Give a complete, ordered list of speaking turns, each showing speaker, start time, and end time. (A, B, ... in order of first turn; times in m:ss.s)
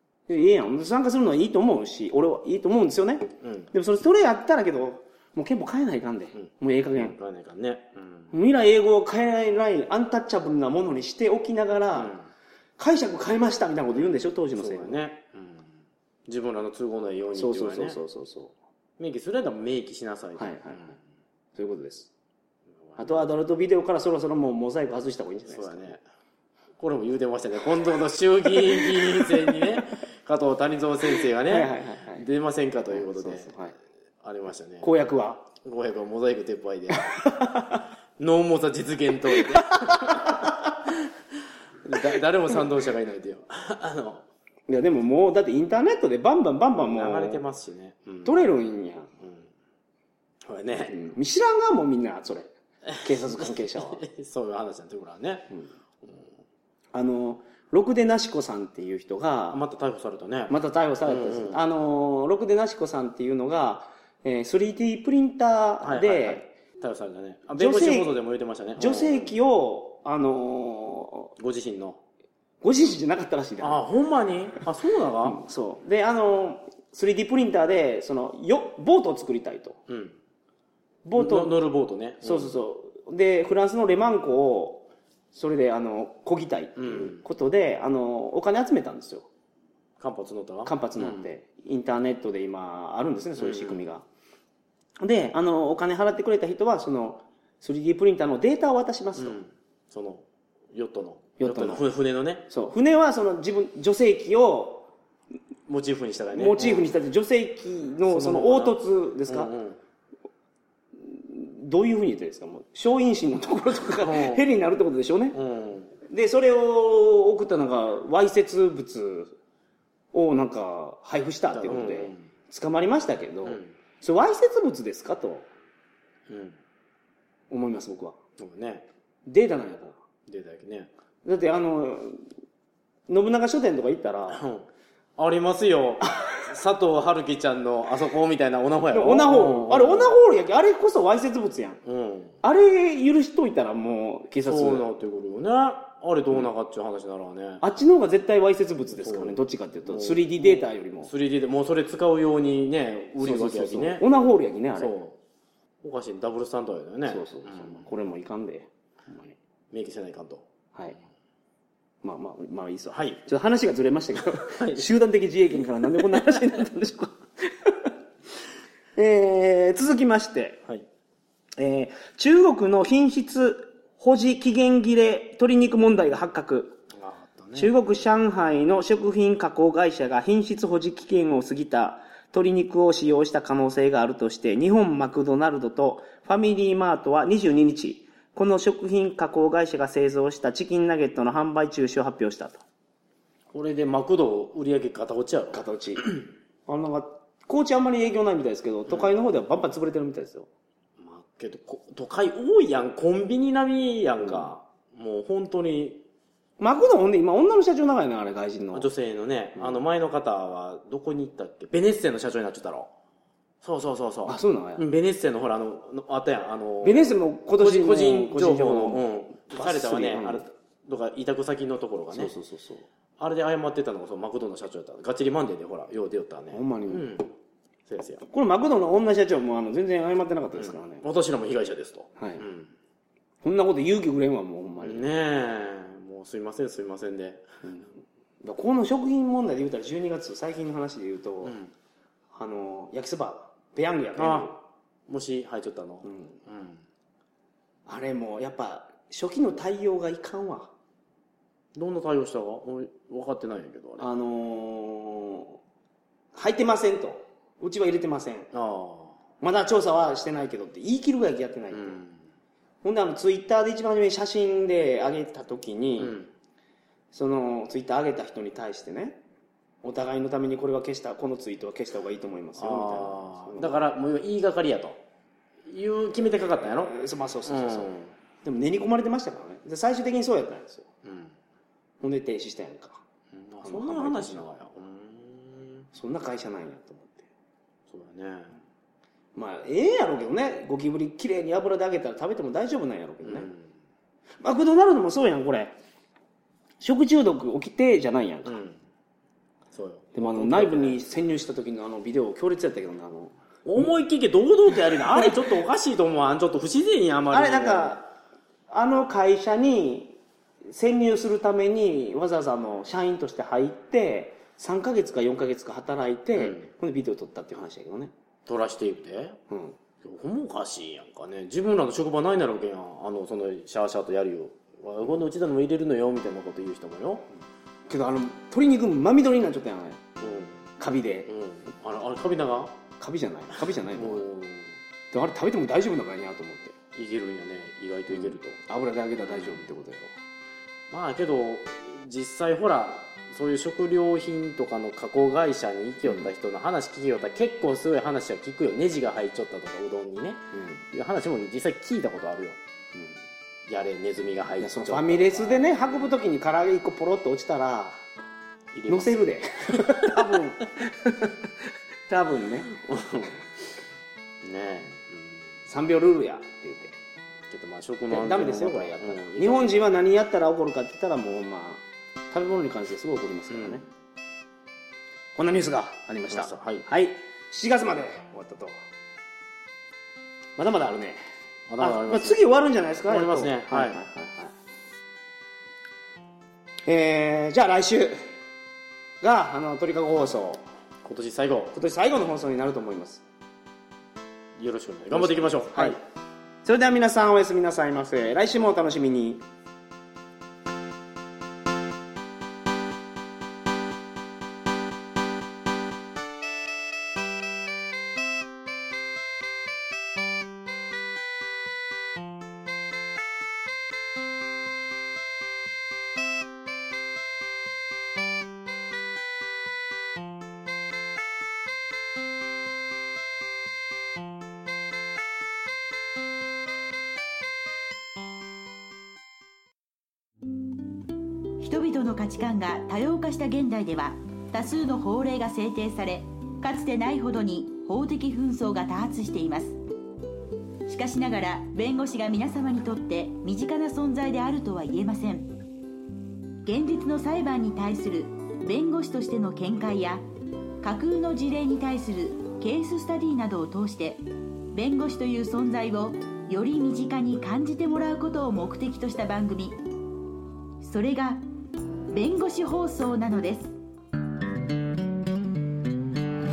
0:00.3-0:07.2 A
0:03.4-0:03.7 B
0:06.3-0:08.3 B
0:08.3-0:12.2 A
0:12.0-0:12.3 B
0:12.8-0:15.0 A
0:13.9-0:18.0 B
0:17.4-0:18.5 A
0:19.0-0:21.0 B
0:20.4-0:21.0 A
0:21.6-0:22.1 A
0:22.8-0:23.2 B
0:23.0-0:26.0 A
0:25.5-0:26.0 B
0:26.8-0:33.6 B
0:28.6-0:29.7 A
0:31.1-0:32.3 A
0:32.9-0:33.8 A
0:34.2-0:34.9 B
0:34.8-0:35.5 A
0:35.6-0:37.1 B
0:36.9-0:37.8 A
0:38.2-0:44.2 B
0:39.4-0:40.5 A
0:44.7-0:47.4 A
0:46.7-0:48.4 B
0:48.2-0:49.1 A
0:49.2-0:49.5 B
0:50.4-0:51.0 B
0:50.8-0:54.0 A
0:52.9-0:55.5 B
0:56.0-0:56.3 B
0:56.9-0:59.6 A
0:59.5-1:00.6 B
1:00.5-1:06.5 A
1:01.1-1:01.6 B
1:05.8-1:09.4 B
1:07.5-1:08.2 A
1:08.8-1:11.3 A
1:11.4-1:12.0 B
1:12.6-1:13.8 A
1:13.6-1:15.5 B
1:15.2-1:19.8 A
1:19.9-1:20.2 B
1:21.0-1:21.6 A
1:21.2-1:22.5 B
1:22.2-1:29.3 A
1:26.8-1:27.2 B
1:30.0-1:31.3 B
1:30.6-1:34.0 A
1:33.4-1:33.8 B
1:35.0-1:39.4 A
1:39.2-1:42.5 B
1:41.4-1:41.8 A
1:42.5-1:44.9 A
1:45.7-1:46.9 B
1:46.3-1:49.5 A
1:48.1-1:49.8 B
1:51.0-1:55.4 A
1:54.0-1:54.5 B
1:55.3-1:55.9 B
1:56.0-1:59.4 A
2:00.1-2:05.5 A
2:01.5-2:02.3 B
2:03.4-2:03.7 B
2:06.3-2:06.6 B
2:07.5-2:08.2 A
2:08.4-2:08.9 B
2:09.3-2:10.0 A
2:10.3-2:10.9 B
2:11.2-2:12.2 A
2:13.1-2:14.4 A
2:14.3-2:20.2 B
2:16.0-2:16.4 A
2:18.9-2:21.8 A
2:21.8-2:22.4 B
2:22.4-2:24.8 A
2:24.4-2:27.6 B
2:27.6-2:31.1 A
2:28.9-2:34.0 B
2:33.2-2:34.9 A
2:34.8-2:35.2 B
2:35.8-2:37.9 B
2:37.1-2:39.4 A
2:39.7-2:40.4 B
2:42.0-2:47.9 A
2:42.9-2:43.2 B
2:44.3-2:44.9 B
2:46.1-2:46.5 B
2:49.0-2:50.6 A
2:51.6-2:56.8 A
2:56.9-2:57.8 B
2:57.5-3:12.6 A
3:13.5-3:16.2 B
3:15.5-3:20.5 A
3:21.0-3:26.0 B
3:26.6-3:28.9 A
3:28.7-3:32.9 B
3:33.6-3:42.3 B
3:34.3-3:34.8 A
3:36.8-3:40.5 A
3:42.1-3:42.9 A
3:43.2-3:47.3 B
3:46.5-3:47.2 A
3:47.9-3:48.2 B
3:48.3-3:51.0 A
3:50.6-3:52.7 B
3:52.2-3:52.4 A
3:53.4-3:55.0 A
3:54.8-3:57.4 B
3:57.6-4:01.6 A
4:01.4-4:01.7 B
4:02.3-4:04.6 A
4:04.2-4:04.5 B
4:05.1-4:06.8 B
4:06.0-4:06.4 A
4:07.9-4:10.7 A
4:11.8-4:14.1 B
4:14.0-4:15.6 A
4:16.3-4:18.5 A
4:18.5-4:19.2 B
4:19.4-4:22.0 A
4:21.7-4:22.2 B
4:22.8-4:26.2 A
4:26.0-4:26.3 B
4:27.1-4:29.2 A
4:29.8-4:33.8 A
4:32.6-4:35.0 B
4:35.6-4:36.9 B
4:36.4-4:40.9 A
4:37.4-4:38.1 B
4:41.0-4:41.4 B
4:42.0-4:43.0 A
4:43.3-4:45.9 B
4:43.6-4:44.5 A
4:45.9-4:47.3 A
4:47.9-4:48.6 B
4:49.4-4:53.5 A
4:53.2-4:53.7 B
4:54.4-4:55.8 A
4:56.8-4:58.6 A
4:58.4-4:58.8 B
4:59.7-5:01.0 B
5:00.2-5:03.9 A
5:03.6-5:08.0 B
5:04.9-5:05.5 A
5:07.3-5:08.1 A
5:08.7-5:18.1 A
5:16.4-5:16.7 B
5:18.5-5:19.4 B
5:19.5-5:19.8 A
5:20.0-5:27.3 B
5:27.9-5:30.0 A
5:30.2-5:30.6 B
5:30.8-5:31.3 A
5:31.3-5:32.8 B
5:33.0-5:34.2 A
5:33.9-5:34.8 B
5:35.1-5:36.8 A
5:36.9-5:38.6 B
5:38.1-5:40.1 A
5:39.2-5:39.7 B
5:40.9-5:52.6 B
5:50.5-5:50.8 A
5:52.9-5:53.2 A
5:53.7-5:56.1 B
5:54.6-5:58.0 A
5:58.7-5:59.2 B
5:58.9-6:01.3 A
5:59.7-6:00.4 B
6:02.1-6:02.8 A
6:02.7-6:03.5 B
6:04.4-6:05.5 B
6:05.7-6:07.0 A
6:07.5-6:10.0 B
6:08.1-6:13.9 A
6:13.5-6:13.8 B
6:15.4-6:18.8 A
6:16.3-6:16.9 B
6:20.6-6:21.2 A
6:21.7-6:22.4 B
6:21.8-6:24.5 A
6:23.1-6:24.0 B
6:26.9-6:28.2 A
6:29.2-6:30.6 A
6:31.0-6:31.7 B
6:31.7-6:33.2 A
6:34.6-6:36.0 B
6:35.1-6:36.0 A
6:36.6-6:39.4 A
7:11.6-7:19.8 C
7:20.9-7:25.5 C
7:26.6-7:30.2 C
7:30.8-7:39.8 C
7:40.8-7:41.4 C
7:42.1-7:43.8 C